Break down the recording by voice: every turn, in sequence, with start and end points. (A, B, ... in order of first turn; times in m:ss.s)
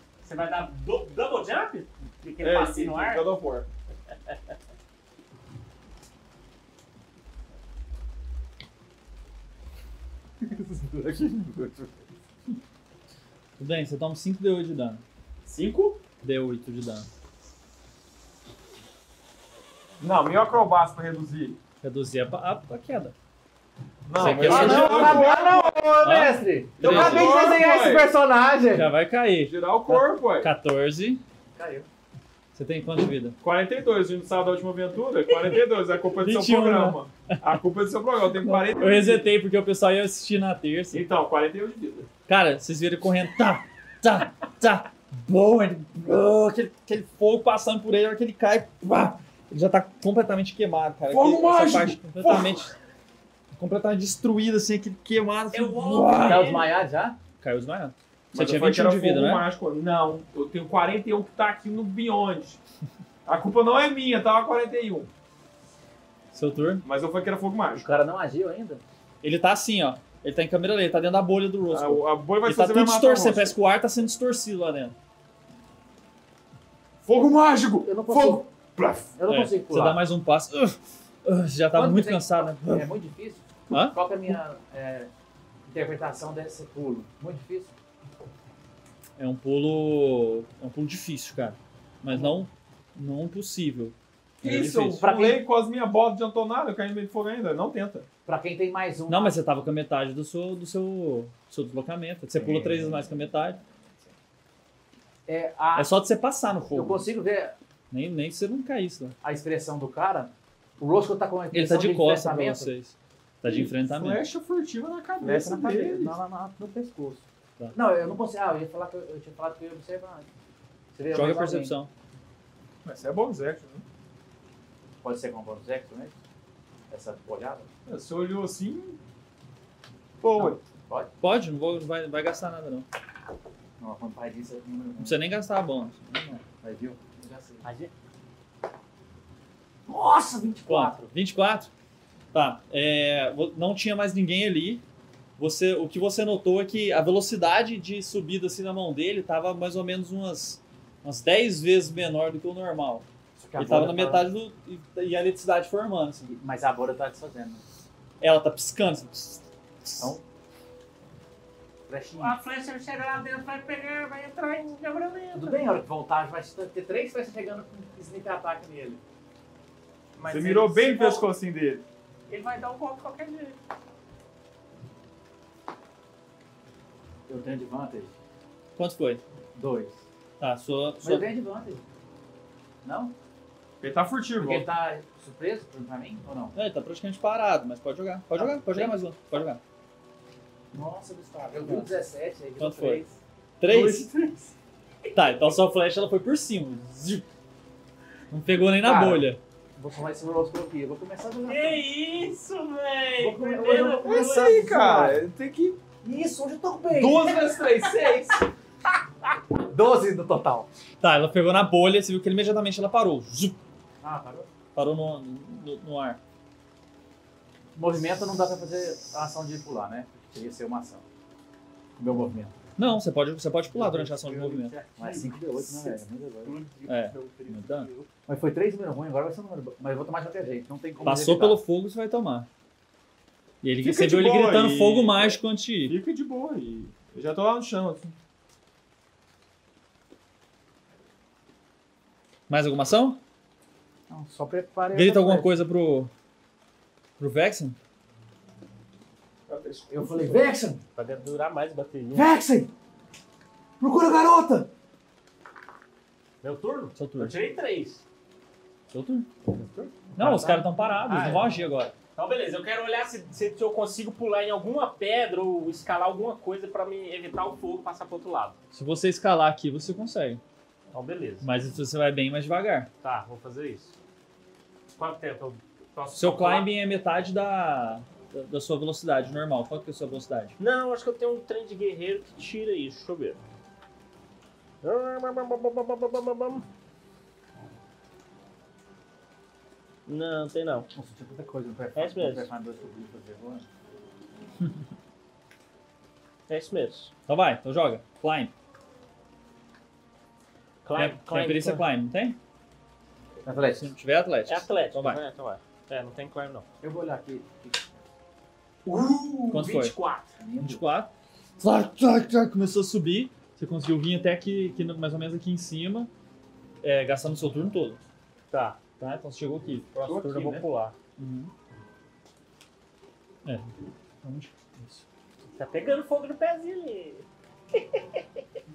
0:00.2-0:03.3 A
0:02.4-0:03.7 B
0:10.4-0:12.1 C
0:13.6-0:15.0 D
0:15.4-0:16.0 B
0:16.2-0:17.1 D
0:20.0-0:21.6 B
0:21.8-0:23.1 D
0:24.1-0:25.9 B
0:24.1-0:25.2 D
0:24.2-0:28.9 C
0:26.0-0:27.3 D
0:26.8-0:28.1 B
0:28.7-0:31.2 D
0:29.4-0:30.5 B
0:31.6-0:31.9 C
0:32.6-0:33.4 D
0:33.4-0:39.3 B
0:36.2-0:37.6 D
0:38.4-0:41.0 D
0:40.9-0:42.1 B
0:42.3-0:52.7 D
0:51.1-0:52.7 B
0:53.6-0:56.5 D
0:55.5-0:56.7 A
0:55.9-0:56.4 B
0:56.2-0:57.2 C
0:57.4-0:59.5 D
0:58.3-1:02.6 B
1:03.2-1:05.1 B
1:06.3-1:06.8 D
1:06.8-1:07.9 B
1:07.8-1:08.8 C
1:09.2-1:15.0 D
1:11.7-1:13.6 B
1:17.0-1:19.1 B
1:17.8-1:18.5 C
1:19.2-1:20.0 C
1:19.3-1:22.9 D
1:21.7-1:25.1 C
1:23.7-1:24.0 D
1:25.7-1:27.8 C
1:29.2-1:35.3 D
1:34.4-1:38.1 B
1:35.0-1:35.4 C
1:38.3-1:39.4 C
1:39.1-1:43.6 D
1:42.4-1:43.1 C
1:45.3-1:45.9 C
1:45.8-1:47.0 D
1:46.7-1:47.6 C
1:47.9-1:49.2 D
1:49.2-1:52.7 C
1:51.5-1:54.2 D
1:53.4-1:56.2 B
1:55.2-2:00.3 C
2:00.9-2:01.7 C
2:01.1-2:01.9 D
2:02.8-2:03.8 B
2:05.0-2:06.2 C
2:06.9-2:07.7 C
2:07.9-2:09.0 B
2:10.2-2:10.6 B
2:10.4-2:11.1 C
2:11.2-2:12.9 D
2:13.8-2:15.2 C
2:15.0-2:16.4 D
2:16.2-2:17.6 C
2:17.6-2:17.9 A
2:19.9-2:21.1 C
2:20.7-2:21.7 D
2:22.3-2:24.8 D
2:25.4-2:36.3 D
2:33.4-2:34.3 C
2:36.3-2:37.6 C
2:38.2-2:40.2 D
2:41.9-2:42.4 C
2:42.2-2:45.6 A
2:45.4-2:49.0 C
2:50.2-2:51.3 A
2:50.3-2:51.8 B
2:52.3-2:53.6 A
2:57.3-2:58.1 C
2:58.8-2:59.2 D
2:59.6-3:00.0 C
3:00.4-3:01.3 D
3:01.0-3:01.8 C
3:02.8-3:03.1 C
3:03.8-3:04.7 B
3:04.4-3:06.6 C
3:06.6-3:09.6 D
3:08.4-3:09.0 C
3:10.7-3:13.2 C
3:11.6-3:11.9 D
3:12.6-3:13.0 D
3:13.6-3:14.1 D
3:13.7-3:14.0 B
3:15.1-3:17.3 D
3:18.3-3:19.4 D
3:18.8-3:19.2 C
3:19.8-3:21.8 C
3:21.5-3:24.7 A
3:23.2-3:25.2 C
3:24.0-3:25.8 B
3:26.0-3:27.5 C
3:26.9-3:28.5 B
3:29.7-3:30.7 C
3:31.0-3:33.6 D
3:34.0-3:34.5 C
3:34.8-3:36.2 D
3:37.8-3:41.0 C
3:42.0-3:42.5 C
3:42.8-3:44.7 D
3:43.7-3:48.1 A
3:45.0-3:46.6 C
3:46.9-3:47.9 D
3:48.3-3:51.6 C
3:51.0-3:52.5 D
3:53.6-3:56.0 D
3:53.8-3:58.2 B
4:02.5-4:03.2 D
4:04.1-4:05.5 C
4:04.9-4:06.1 D
4:07.2-4:07.8 D
4:09.5-4:10.5 B
4:09.9-4:10.8 C
4:11.0-4:12.3 A
4:12.1-4:12.7 C
4:13.8-4:14.7 C
4:16.4-4:18.0 A
4:17.0-4:17.4 D
4:18.9-4:19.3 D
4:19.5-4:20.6 C
4:20.2-4:21.9 D
4:21.0-4:21.5 A
4:22.1-4:28.6 A
4:28.7-4:30.4 D
4:30.9-4:31.5 A
4:31.4-4:32.9 D
4:33.0-4:33.9 A
4:35.0-4:36.7 A
4:36.1-4:40.6 D
4:40.6-4:43.4 A
4:44.8-4:46.7 A
4:50.1-4:50.9 A
4:50.9-4:53.7 C
4:52.0-4:52.5 A
4:56.5-4:57.1 A
4:57.3-4:58.5 D
5:00.8-5:01.9 A
5:01.0-5:02.4 D
5:03.4-5:03.9 C
5:03.8-5:05.2 D
5:04.5-5:06.7 A
5:06.8-5:08.0 C
5:08.8-5:10.3 A
5:09.5-5:10.0 D
5:10.4-5:10.8 C
5:10.6-5:16.1 D
5:16.8-5:18.0 D
5:18.5-5:18.8 A
5:19.0-5:19.9 D
5:20.0-5:21.0 A
5:20.0-5:20.6 B
5:21.2-5:21.5 D
5:23.4-5:23.7 D
5:24.2-5:25.0 D
5:25.6-5:28.2 A